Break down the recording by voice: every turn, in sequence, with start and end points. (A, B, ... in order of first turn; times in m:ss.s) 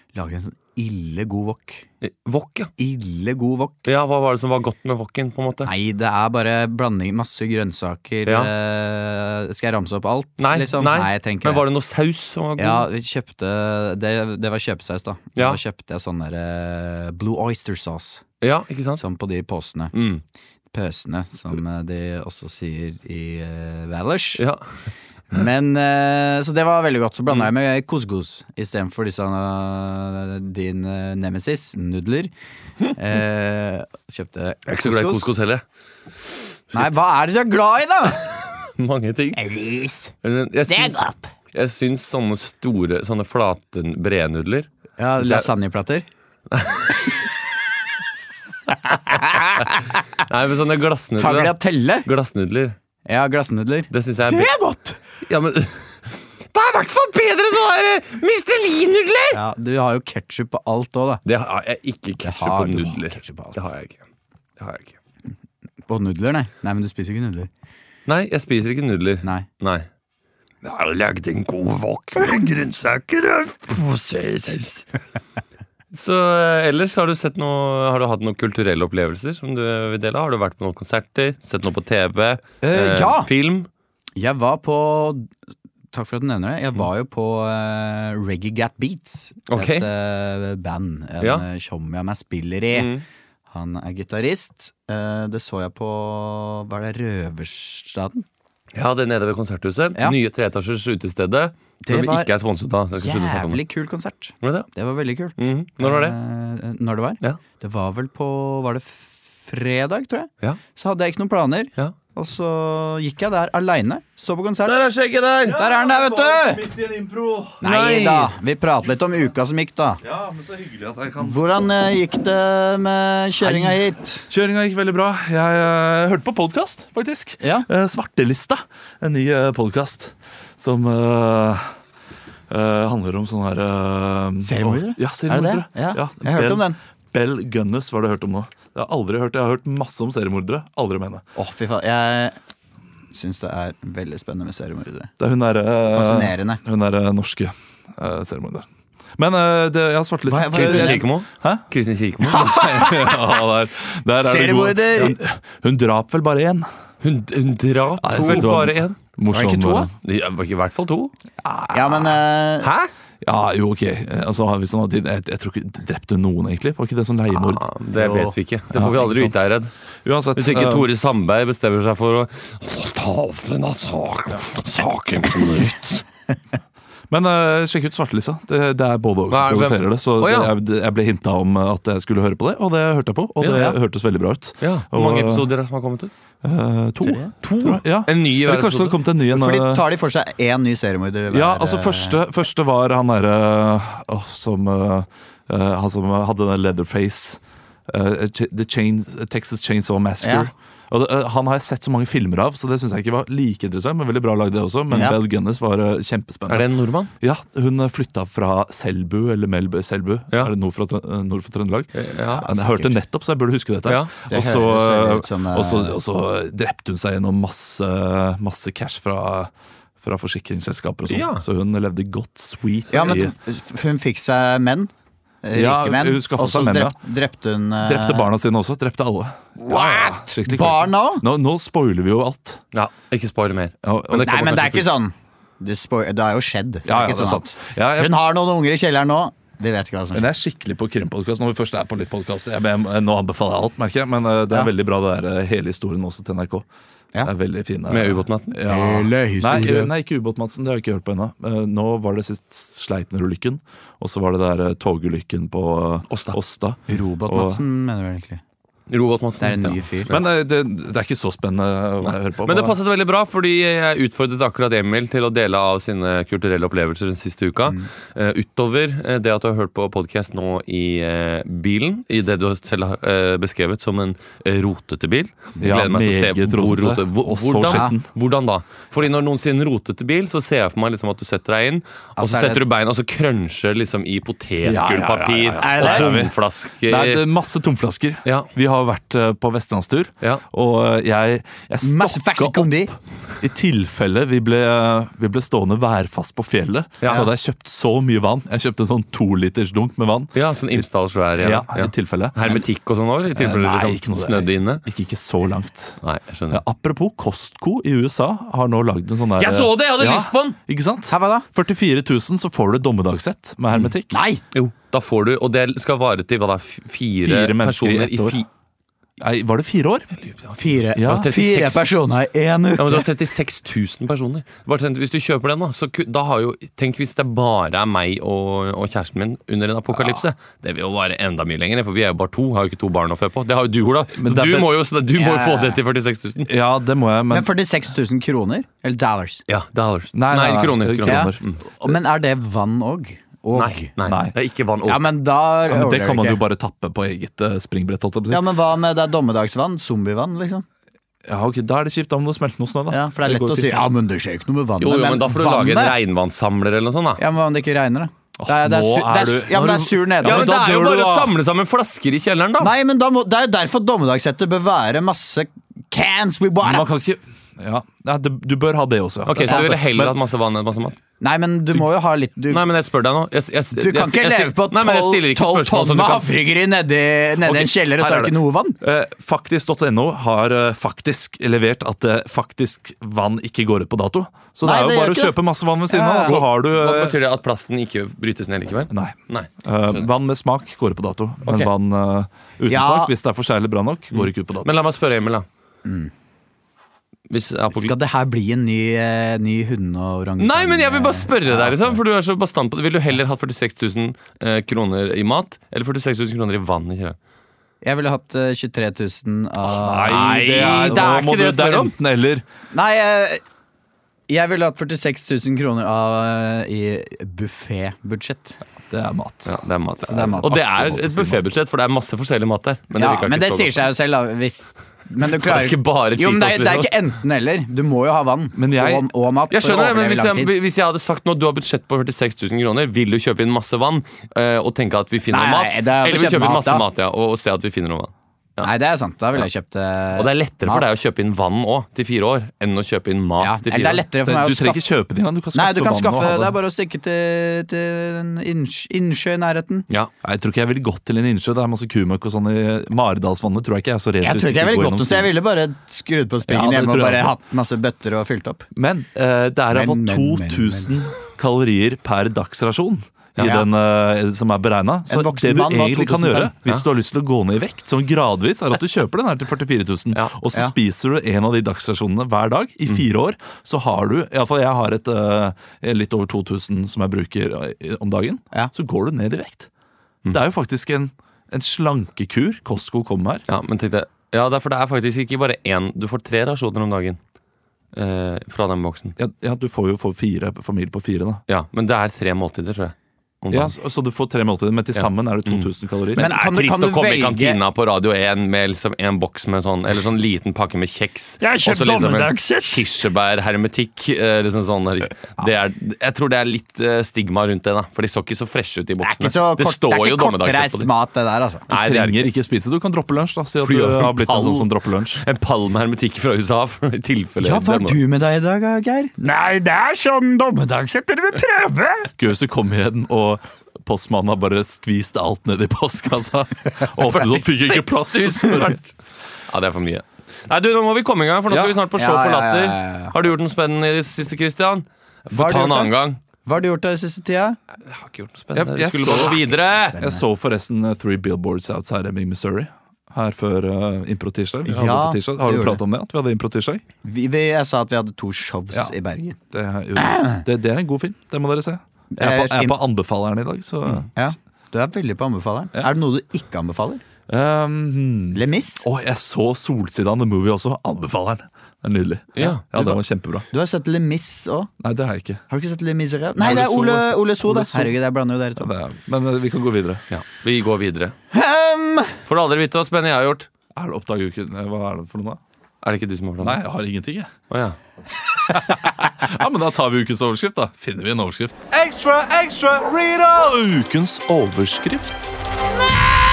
0:00.1-0:01.9 A
0:02.0-0:02.7 B
0:02.8-0:03.9 A
0:03.9-0:05.7 B
0:05.6-0:11.7 A
0:08.3-0:08.5 B
0:10.4-0:12.9 B
0:12.6-0:18.2 A
0:18.4-0:19.0 B
0:19.0-0:19.9 A
0:19.9-0:20.2 B
0:20.7-0:24.4 A
0:24.4-0:24.7 B
0:25.3-0:32.3 A
0:33.0-0:35.3 A
0:34.7-0:35.6 B
0:36.7-0:38.2 A
0:38.8-0:39.4 B
0:39.4-0:40.1 A
0:40.2-0:41.0 B
0:40.7-0:41.3 A
0:41.5-0:45.5 B
0:45.0-0:46.1 A
0:46.5-0:47.0 B
0:48.9-0:50.0 A
0:49.6-0:52.8 B
0:51.2-0:52.1 A
0:53.1-0:55.0 A
0:53.9-0:54.5 B
0:55.2-0:59.4 B
0:59.3-1:01.2 A
1:01.3-1:04.0 B
1:02.2-1:03.6 A
1:04.6-1:05.0 B
1:05.9-1:07.5 A
1:08.1-1:09.9 B
1:10.6-1:14.8 B
1:15.9-1:23.7 B
1:22.6-1:23.3 A
1:24.2-1:25.3 A
1:25.9-1:32.9 A
1:29.5-1:29.9 B
1:32.7-1:33.0 B
1:33.5-1:38.2 A
1:38.7-1:43.6 B
1:41.8-1:42.3 A
1:43.0-1:54.8 A
1:44.4-1:44.7 B
1:45.4-1:46.2 B
1:54.6-1:55.6 B
1:55.4-1:57.6 C
1:55.5-1:56.6 A
1:57.6-2:00.0 A
1:57.6-1:58.3 B
2:00.0-2:01.4 C
2:01.2-2:04.2 A
2:03.4-2:11.8 C
2:07.4-2:07.7 A
2:12.5-2:21.2 C
2:14.4-2:16.8 A
2:21.4-2:22.4 A
2:23.1-2:25.1 A
2:25.2-2:31.6 C
2:25.9-2:26.6 A
2:30.3-2:31.1 A
2:30.5-2:32.6 B
2:32.3-2:36.7 C
2:32.4-2:33.3 A
2:34.2-2:35.2 A
2:37.0-2:39.0 B
2:38.0-2:39.9 C
2:38.2-2:38.5 A
2:39.3-2:39.9 A
2:40.0-2:41.1 B
2:41.4-2:42.2 C
2:41.7-2:42.7 A
2:42.6-2:42.9 B
2:43.2-2:47.7 C
2:47.3-2:49.7 B
2:48.0-2:48.3 A
2:48.7-2:49.4 C
2:50.0-2:50.9 C
2:50.4-2:55.9 B
2:55.4-2:55.9 A
2:57.1-3:05.5 C
2:59.3-3:00.5 B
3:03.4-3:03.6 B
3:03.5-3:03.8 A
3:04.6-3:06.1 B
3:06.4-3:09.8 C
3:07.0-3:07.3 A
3:07.4-3:09.0 B
3:09.2-3:12.2 A
3:11.3-3:26.7 C
3:20.2-3:20.5 A
3:24.9-3:25.2 A
3:26.5-3:27.1 B
3:27.2-3:43.4 C
3:31.9-3:32.7 B
3:32.6-3:32.9 A
3:33.9-3:34.1 B
3:34.2-3:36.0 A
3:41.1-3:41.4 B
3:42.9-3:44.9 A
3:45.4-3:48.3 A
3:45.5-3:47.0 C
3:47.8-3:52.6 C
3:49.6-3:51.2 A
3:52.7-3:54.4 B
3:53.8-3:54.9 C
3:54.2-4:00.3 A
3:56.8-3:58.1 C
4:00.1-4:06.7 C
4:07.2-4:17.6 C
4:07.9-4:08.6 B
4:08.6-4:09.9 A
4:16.1-4:16.4 B
4:16.9-4:18.4 A
4:18.9-4:20.2 B
4:19.4-4:20.1 A
4:20.1-4:22.8 C
4:22.0-4:47.2 B
4:35.6-4:38.1 C
4:37.6-4:38.0 A
4:42.2-4:42.6 A
4:44.6-5:00.9 C
4:45.6-4:46.2 A
4:48.2-4:48.5 B
4:51.8-4:52.9 A
4:57.0-4:57.3 B
5:00.3-5:04.8 B
5:01.4-5:02.6 C
5:03.3-5:06.0 C
5:06.0-5:06.6 B
5:06.5-5:14.2 C
5:09.4-5:10.6 B
5:11.1-5:11.5 A
5:13.9-5:14.4 A
5:14.5-5:18.5 B
5:17.2-5:18.4 C
5:19.2-5:20.2 C
5:20.2-5:21.9 B
5:20.6-5:23.1 A
5:20.9-5:21.3 C
5:22.8-5:36.5 B
5:29.9-5:30.2 C
5:34.1-5:34.7 C
5:35.2-5:35.8 A
5:36.5-5:37.5 C
5:37.3-5:39.4 A
5:39.5-5:41.6 B
5:40.1-5:41.4 C
5:41.0-5:43.9 A
5:43.5-5:45.1 B
5:44.0-5:44.3 C
5:44.9-5:46.4 A
5:45.7-5:48.4 C
5:48.3-5:50.6 A
5:51.3-5:53.9 C
5:52.9-5:56.0 A
5:54.8-5:57.2 B
5:57.2-6:00.5 A
5:58.4-6:01.3 C
6:00.2-6:02.7 B
6:02.6-6:06.9 A
6:06.6-6:10.2 C
6:09.3-6:11.0 B
6:09.4-6:09.7 A
6:11.2-6:12.6 A
6:12.5-6:16.4 B
6:13.8-6:18.8 A
6:17.4-6:27.2 C
6:24.6-6:26.4 A
6:26.2-6:30.1 B
6:28.9-6:34.7 C
6:31.4-6:31.7 B
6:32.7-6:33.1 A
6:34.1-6:35.5 B
6:35.8-6:36.1 A
6:37.3-6:38.0 B
6:37.7-6:42.0 A
6:40.4-6:47.2 B
6:47.8-6:51.0 A
6:49.6-6:52.4 C
6:50.0-6:51.9 B
6:52.7-6:53.4 A
6:54.3-6:58.6 A
6:58.9-6:59.6 C
6:59.5-7:03.9 B
7:00.1-7:00.5 A
7:00.2-7:01.4 C
7:03.0-7:10.5 A
7:05.3-7:06.9 B
7:08.6-7:09.1 C
7:09.5-7:18.7 B
7:15.3-7:16.8 A
7:18.6-7:20.9 A
7:20.2-7:24.0 B
7:23.4-7:24.8 A
7:24.2-7:26.6 C
7:25.5-7:29.9 A
7:30.2-7:35.3 C
7:34.2-7:38.7 A
7:36.5-7:37.4 C
7:38.8-7:59.7 C
7:39.7-7:40.9 A
7:43.4-7:43.7 A
7:45.1-7:46.5 A
8:00.3-8:03.4 C
8:03.5-8:07.2 B
8:07.9-8:09.2 B
8:09.2-8:11.4 C
8:11.5-8:13.8 B
8:13.5-8:16.3 C
8:15.0-8:30.9 B
8:16.2-8:17.6 A
8:21.4-8:22.9 D
8:29.0-8:31.7 A
8:31.7-8:32.3 B
8:31.7-8:35.2 C
8:33.6-8:38.0 B
8:37.4-8:39.2 A
8:39.2-8:42.1 D
8:42.2-8:48.8 C
8:47.0-8:48.9 B
8:49.5-8:56.2 B
8:51.5-8:51.8 C
8:52.0-8:53.2 A
8:55.3-8:55.9 A
8:56.4-8:57.6 A
8:57.8-9:00.0 B
8:58.5-9:06.8 C
8:59.1-9:00.2 A
9:04.7-9:05.8 A
9:07.0-9:09.4 A
9:09.5-9:14.1 C
9:10.0-9:10.4 A
9:12.1-9:12.8 A
9:14.2-9:17.0 A
9:17.3-9:23.5 C
9:18.3-9:18.9 A
9:22.4-9:22.6 B
9:22.7-9:23.0 A
9:23.5-9:24.7 A
9:24.8-9:25.4 C
9:25.5-9:28.7 A
9:26.4-9:28.0 C
9:28.6-9:30.0 C
9:30.1-9:31.2 B
9:31.3-9:32.2 A
9:32.3-9:33.5 B
9:33.7-9:35.4 C
9:35.8-9:36.6 B
9:36.4-9:37.3 C
9:37.5-9:37.8 B
9:38.5-9:45.2 C